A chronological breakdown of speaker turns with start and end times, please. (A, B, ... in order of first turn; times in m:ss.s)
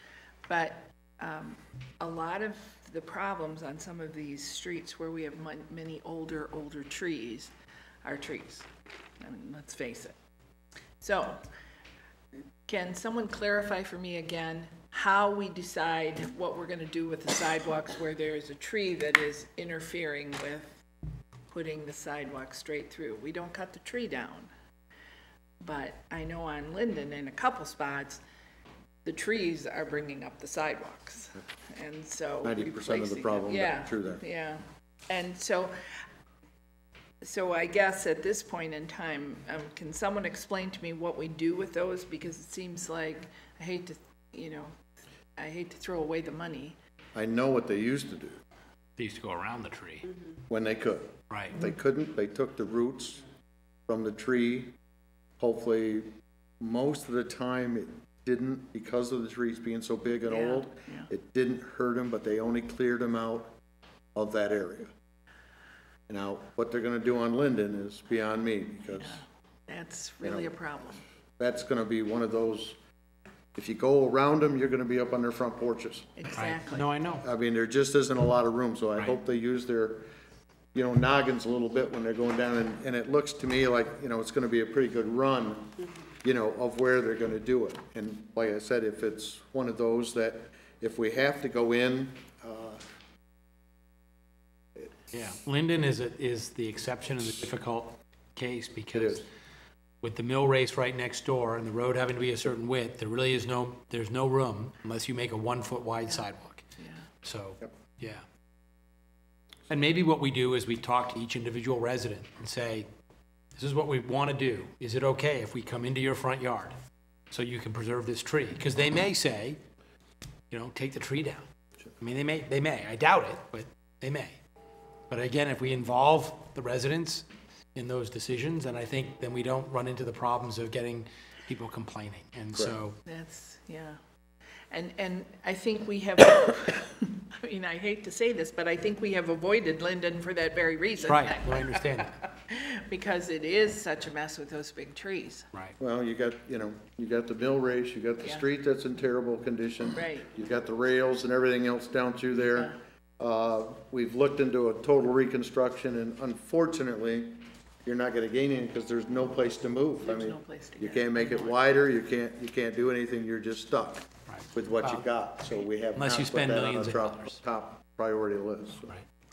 0:00.5-0:07.5 A
0:08.0-0:08.7 A
0:09.2-0:10.2 A
0:11.0-0:11.4 A
0:12.6-0:20.7 A
0:21.5-0:24.5 A
0:25.6-0:28.2 A
0:29.0-0:35.8 A
0:32.4-0:34.2 B
0:37.2-0:44.8 A
0:45.4-0:46.8 A
0:47.1-0:48.4 B
0:49.0-0:50.1 C
0:50.5-0:53.2 B
0:51.3-0:51.5 C
0:53.9-0:54.7 B
0:55.4-1:03.5 B
1:00.2-1:01.1 A
1:04.1-1:04.9 B
1:06.1-1:09.2 B
1:08.9-1:11.0 A
1:10.2-1:10.5 B
1:11.4-1:12.8 B
1:13.5-1:16.1 B
1:16.2-1:16.9 A
1:16.4-1:17.2 C
1:17.2-1:20.0 B
1:20.7-1:32.8 B
1:35.1-1:39.2 C
1:38.9-1:39.2 B
1:40.0-1:46.6 C
1:46.8-1:47.1 A
1:47.2-1:48.2 C
1:49.7-1:52.9 C
1:53.6-1:56.7 C
1:57.3-1:59.6 C
2:00.5-2:01.4 C
2:02.0-2:04.3 C
2:05.1-2:13.0 C
2:13.0-2:14.0 A
2:14.7-2:25.5 A
2:21.0-2:22.2 C
2:25.8-2:48.9 B
2:30.0-2:30.3 A
2:40.0-2:41.6 A
2:44.3-2:45.1 C
2:45.9-2:47.4 C